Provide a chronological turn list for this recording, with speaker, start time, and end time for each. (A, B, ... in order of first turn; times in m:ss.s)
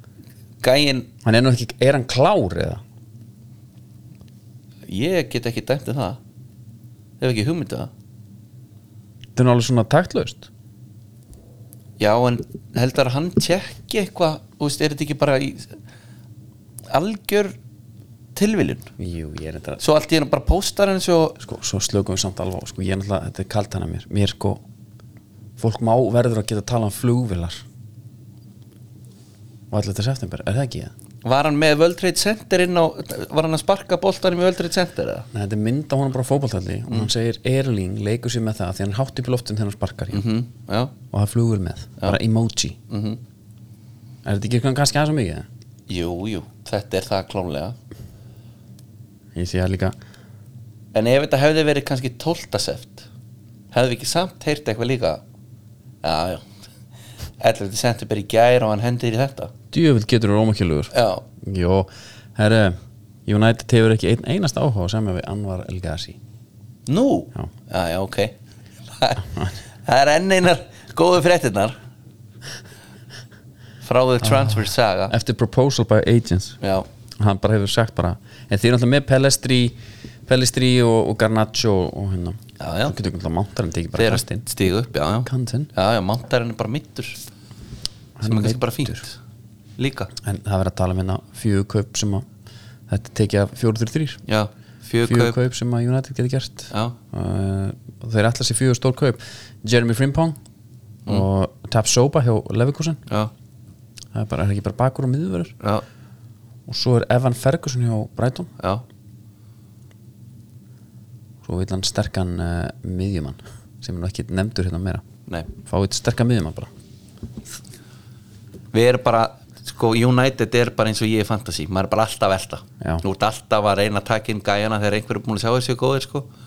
0:00.6-0:01.1 A
0:01.2-0:02.8 B
0:04.9-0:06.2 A
0:07.2-0:07.9 A
0:09.4-0:10.5 B
0:12.0-0:15.8 A
0:16.9-0:17.6 A
0:18.3-0:18.9 A
0:19.0-0:19.8 B
0:19.8-0:21.4 A
0:21.4-0:24.6 B
0:25.6-0:27.6 B
0:29.7-0:30.9 B
0:31.2-0:35.3 A
0:35.3-0:40.2 B
0:40.1-0:40.9 A
0:41.1-0:42.8 B
0:42.9-0:43.2 A
0:44.2-0:45.4 B
0:45.9-0:47.7 A
0:49.4-0:49.9 B
0:50.9-0:53.1 A
0:53.7-0:55.2 A
0:56.0-0:56.5 A
0:57.4-0:59.5 A
0:59.7-1:06.2 B
1:00.9-1:01.2 A
1:06.8-1:11.8 A
1:13.8-1:15.1 A
1:14.2-1:16.6 B
1:16.6-1:16.8 A
1:17.2-1:24.4 B
1:22.6-1:22.9 A
1:24.0-1:27.2 A
1:25.2-1:25.7 B
1:28.2-1:29.0 B
1:28.2-1:29.1 A
1:29.8-1:30.1 A
1:30.2-1:32.2 B
1:32.9-1:34.2 B
1:34.2-1:35.4 A
1:35.0-1:40.4 B
1:36.7-1:37.0 A
1:41.1-1:43.0 B
1:44.1-1:45.5 B
1:45.6-1:45.8 A
1:46.7-1:48.5 B
1:51.4-1:55.0 B
1:55.6-1:56.7 B
1:58.7-2:06.3 A